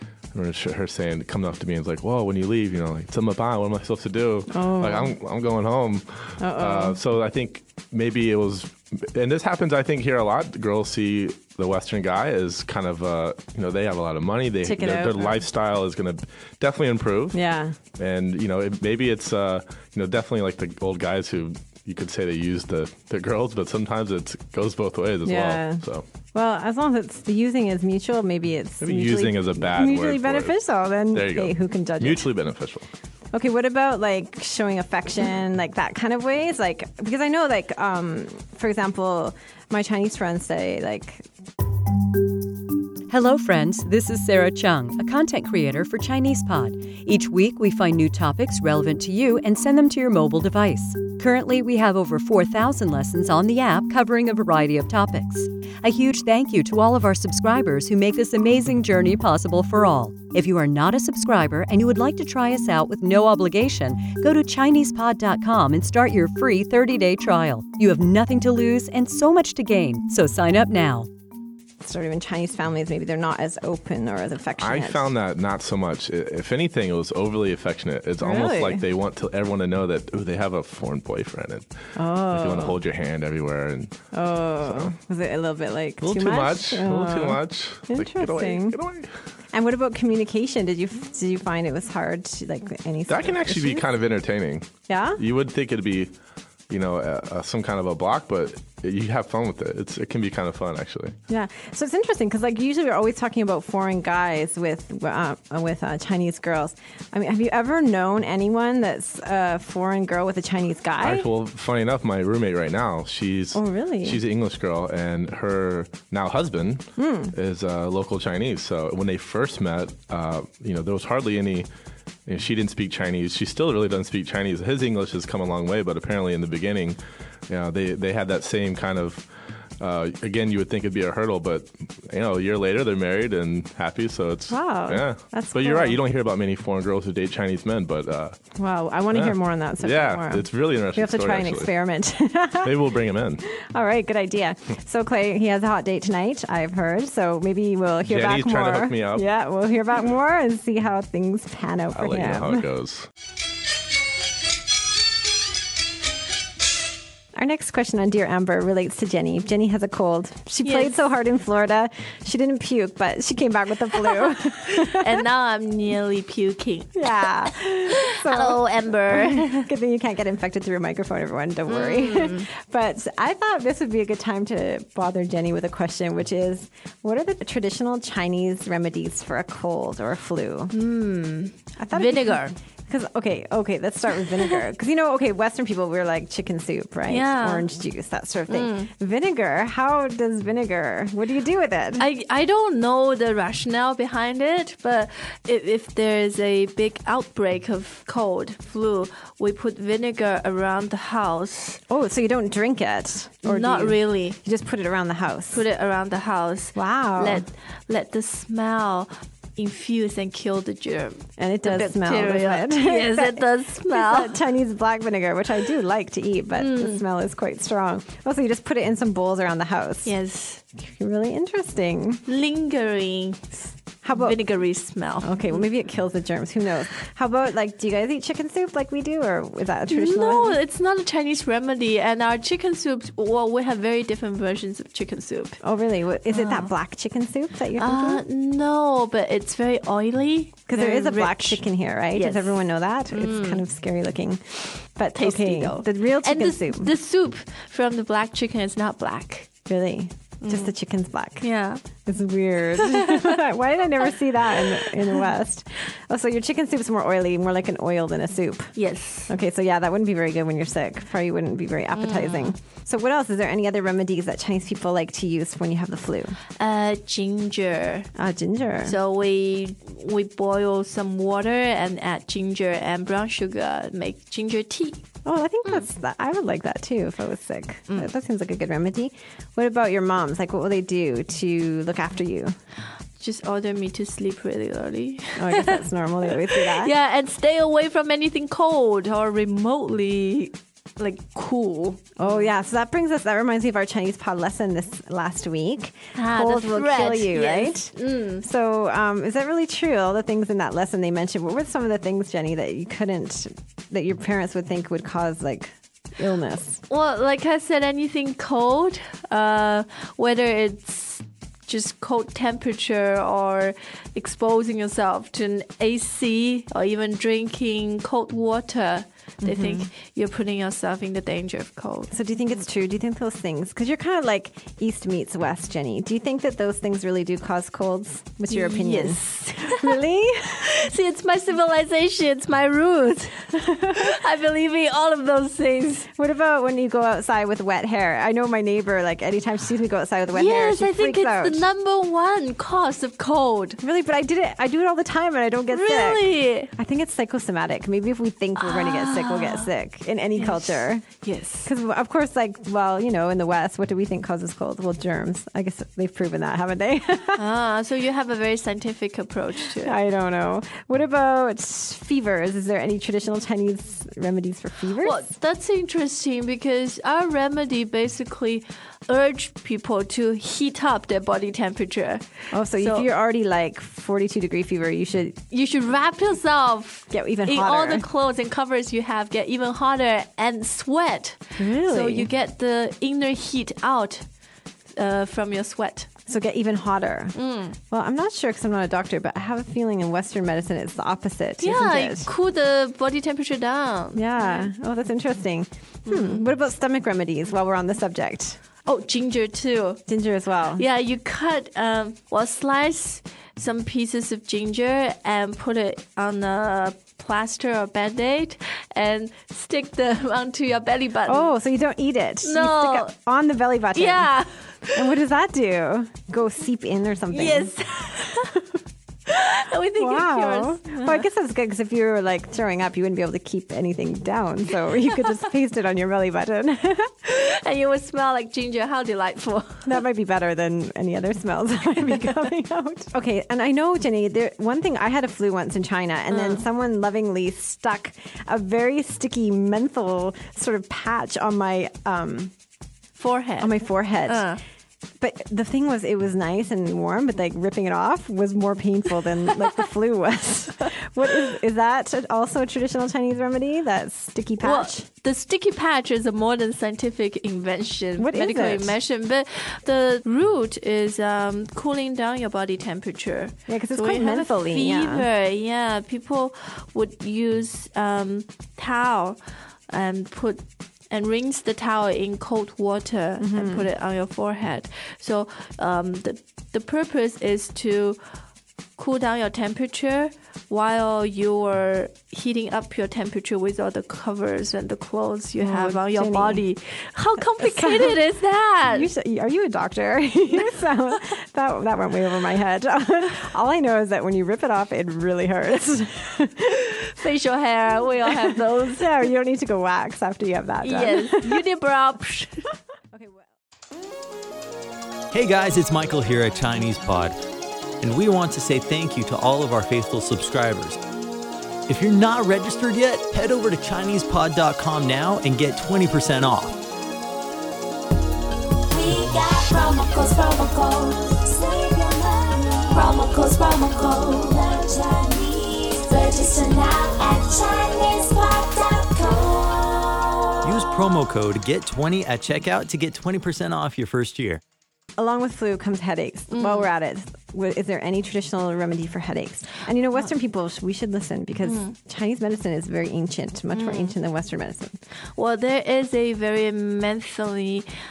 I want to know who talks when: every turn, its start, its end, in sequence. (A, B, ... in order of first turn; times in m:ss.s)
0:00.3-0:17.4 A
0:04.5-0:05.2 B
0:06.4-0:07.0 B
0:14.6-0:15.4 B
0:17.3-0:17.8 B
0:18.0-0:26.0 A
0:25.2-0:25.8 B
0:26.3-0:32.3 B
0:28.8-0:30.6 A
0:31.1-0:32.9 A
0:33.3-0:41.3 B
0:43.1-1:11.1 C
1:11.8-1:15.1 B
1:14.6-1:21.7 A
1:18.2-1:18.8 B
1:22.0-1:22.8 B
1:22.3-1:23.9 A
1:24.1-1:28.8 B
1:24.6-1:24.9 A
1:26.0-1:29.1 A
1:29.5-1:33.9 B
1:33.1-1:36.1 A
1:34.9-1:35.2 B
1:36.7-1:41.1 A
1:41.3-1:51.3 B
1:51.0-2:01.7 A
1:53.5-1:54.2 B
1:57.0-1:57.4 B
2:02.3-2:09.3 A
2:09.8-2:18.4 A
2:14.5-2:16.0 B
2:18.6-2:22.9 B
2:19.1-2:21.7 A
2:22.6-2:23.4 A
2:23.5-2:32.7 B
2:28.0-2:29.3 A
2:32.0-2:33.1 A
2:37.4-2:45.1 B
2:40.6-2:41.0 D
2:44.6-2:49.7 D
2:47.0-3:00.7 B
2:51.7-2:52.5 D
3:00.7-3:02.5 D
3:01.8-3:12.1 B
3:07.1-3:07.7 D
3:08.5-3:08.9 D
3:12.0-3:21.8 D
3:21.9-3:25.7 B
3:23.4-3:24.4 D
3:25.5-3:34.4 D
3:26.8-3:27.4 B
3:31.4-3:40.2 B
3:36.6-3:37.0 D
3:40.0-3:40.6 D
3:40.8-3:42.2 B
3:42.3-3:45.6 D
3:44.0-3:44.4 B
3:45.2-3:50.6 B
3:49.9-3:55.6 D
3:55.6-3:58.2 B
3:56.3-3:56.7 D
3:57.8-4:03.6 D
4:00.7-4:06.9 B
4:05.1-4:09.5 D
4:09.7-4:11.5 B
4:10.4-4:10.7 D
4:11.4-4:11.8 D
4:12.0-4:18.8 B
4:12.8-4:13.3 D
4:18.8-4:19.3 D
4:19.3-4:26.4 B
4:21.9-4:22.6 D
4:26.6-4:28.1 D
4:28.2-4:29.0 B
4:28.8-4:35.0 D
4:35.2-4:42.6 B
4:43.2-4:52.2 D
4:45.4-4:46.9 B
4:52.2-5:06.8 B
4:56.2-4:58.4 D
5:06.9-5:22.1 D
5:19.4-5:19.9 B
5:22.1-5:30.7 B
5:28.5-5:30.0 D
5:30.7-5:36.1 D
5:36.2-5:41.7 B
5:40.3-5:43.8 D
5:43.8-5:51.1 B
5:45.7-5:46.7 D
5:48.6-5:49.7 D
5:50.4-5:51.7 D
5:51.6-5:57.4 B
5:57.4-6:00.0 D
5:59.8-6:05.3 B
6:05.0-6:13.1 D
6:12.5-6:15.4 B
6:15.5-6:24.2 D
6:17.1-6:18.0 B
6:21.6-6:22.3 B
6:25.0-6:26.1 D
6:26.3-6:27.4 B
6:27.4-6:27.8 D
6:27.9-6:32.3 B
6:31.6-6:34.7 D
6:34.1-6:38.6 B
6:36.1-6:36.4 D
6:38.9-6:40.0 D
6:40.1-6:40.8 B
6:40.8-6:51.5 D
6:51.3-6:54.3 B
6:52.4-6:53.1 D
6:53.9-6:54.9 D
6:54.9-6:57.7 B
6:57.3-6:58.5 D
6:59.3-7:01.3 D
7:00.0-7:07.1 B
7:07.2-7:10.0 D
7:09.9-7:22.5 B
7:16.3-7:16.6 D
7:23.2-7:24.6 D
7:23.6-7:24.5 B
7:25.2-7:35.1 B
7:34.6-7:49.4 D
7:38.2-7:39.0 B
7:43.7-7:45.3 B
7:49.9-7:58.2 D
7:53.4-7:53.9 B
7:59.0-8:09.1 D
8:05.6-8:06.6 B
8:07.6-8:08.2 B
8:08.9-8:16.8 B
8:16.7-8:19.3 D
8:18.4-8:21.6 B
8:20.8-8:22.7 D
8:23.1-8:23.4 B
8:25.3-8:27.4 E
8:28.0-8:31.0 E
8:31.9-8:36.8 E
8:38.9-8:50.6 F
8:50.6-8:54.6 E
8:55.2-9:05.0 B
8:56.5-8:56.9 D
9:01.6-9:01.9 D
9:03.7-9:04.2 D
9:05.4-9:07.9 D